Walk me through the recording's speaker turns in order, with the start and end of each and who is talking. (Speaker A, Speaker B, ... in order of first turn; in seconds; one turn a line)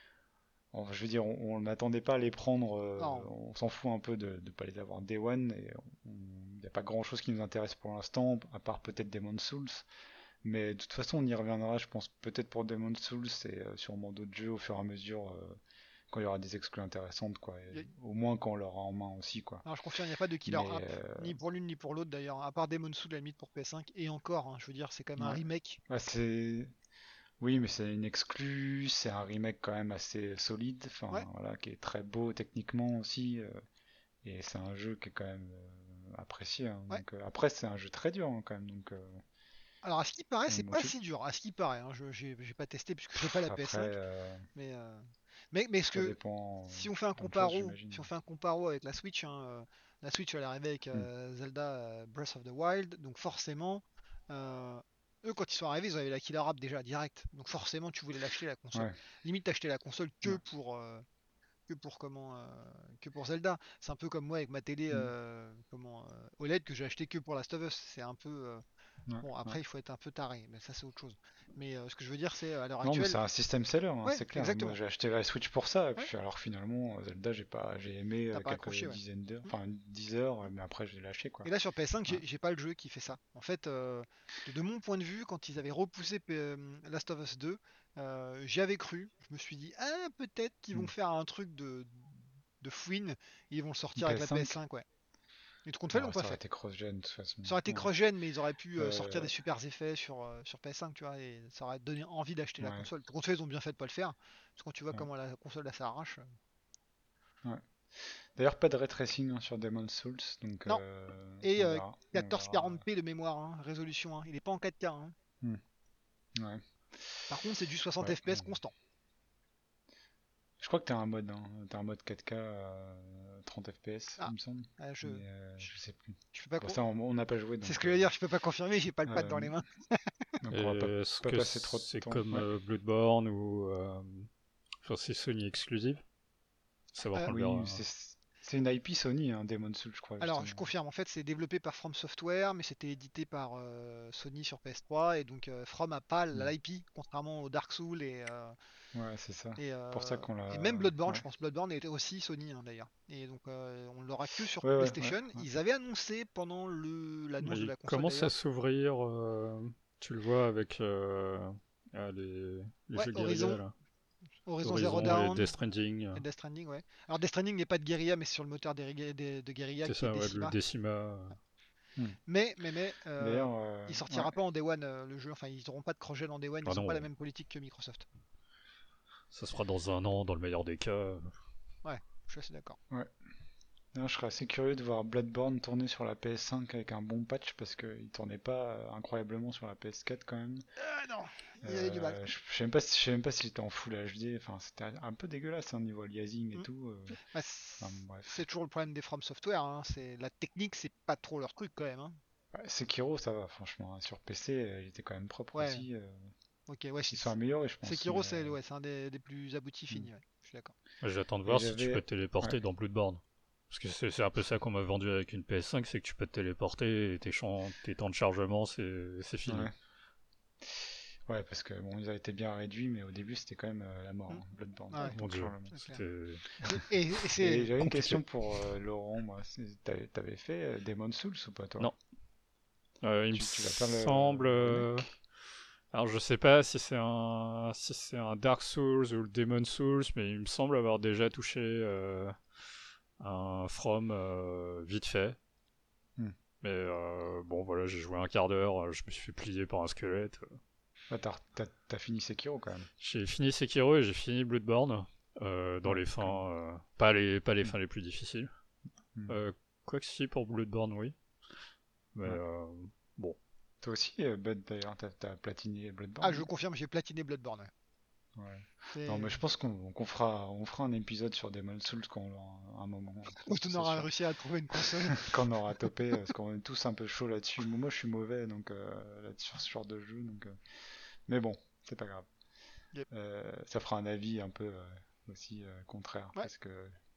Speaker A: 0.7-9.9
Speaker B: 3.0-3.3
Speaker A: 10.4-15.6
Speaker A: 16.1-19.7
Speaker B: 19.6-25.8
Speaker A: 20.4-21.3
Speaker A: 25.2-26.7
Speaker A: 27.4-33.6
Speaker A: 34.2-39.2
Speaker B: 39.8-44.0
Speaker A: 40.5-40.9
Speaker A: 43.1-44.5
Speaker B: 44.5-46.2
Speaker A: 45.9-48.1
Speaker B: 46.7-61.0
Speaker B: 61.7-68.6
Speaker A: 69.1-69.6
Speaker B: 69.2-73.2
Speaker A: 72.8-81.5
Speaker B: 74.0-74.8
Speaker B: 78.3-79.5
Speaker B: 81.5-94.9
Speaker A: 94.0-94.6
Speaker B: 95.7-96.4
Speaker A: 95.9-97.9
Speaker B: 97.5-106.3
Speaker A: 98.8-99.3
Speaker A: 102.6-102.9
Speaker A: 107.4-112.8
Speaker B: 111.4-115.2
Speaker A: 116.4-117.3
Speaker B: 117.3-118.7
Speaker A: 118.0-118.5
Speaker A: 120.6-128.1
Speaker B: 124.2-125.7
Speaker B: 126.3-126.8
Speaker B: 127.6-130.4
Speaker A: 129.1-129.6
Speaker A: 130.4-132.5
Speaker C: 130.5-134.3
Speaker C: 134.8-136.0
Speaker C: 136.9-137.8
Speaker B: 137.1-137.3
Speaker A: 137.3-140.7
Speaker B: 140.2-148.6
Speaker A: 148.9-151.2
Speaker B: 149.6-158.3
Speaker A: 154.6-155.4
Speaker C: 157.4-163.7
Speaker B: 162.9-163.6
Speaker B: 164.5-165.5
Speaker C: 164.6-166.2
Speaker B: 166.1-170.6
Speaker C: 169.8-171.4
Speaker B: 172.3-178.1
Speaker A: 173.2-174.3
Speaker C: 176.7-177.1
Speaker C: 179.3-181.3
Speaker B: 181.8-182.8
Speaker A: 183.9-190.7
Speaker B: 190.8-192.2
Speaker A: 191.6-197.2
Speaker B: 196.5-202.2
Speaker A: 197.8-198.3
Speaker A: 202.5-206.3
Speaker B: 205.5-205.8
Speaker B: 206.7-210.8
Speaker A: 207.1-208.6
Speaker C: 211.0-219.7
Speaker A: 211.5-212.6
Speaker A: 219.5-219.7
Speaker A: 220.7-225.8
Speaker B: 224.3-225.2
Speaker C: 225.1-226.4
Speaker B: 225.7-226.0
Speaker B: 226.6-227.7
Speaker A: 227.4-231.9
Speaker C: 227.8-228.2
Speaker C: 233.0-235.1
Speaker A: 233.3-235.1
Speaker C: 235.9-242.4
Speaker C: 243.2-245.4
Speaker C: 246.6-250.6
Speaker A: 251.1-252.9
Speaker C: 253.0-258.5
Speaker A: 255.8-256.4
Speaker C: 259.3-261.1
Speaker C: 262.1-263.4
Speaker A: 263.8-266.5
Speaker B: 266.2-267.7
Speaker A: 268.4-274.1
Speaker B: 268.9-269.4
Speaker B: 273.4-275.4
Speaker A: 275.1-280.6
Speaker A: 281.3-282.3
Speaker A: 283.1-287.0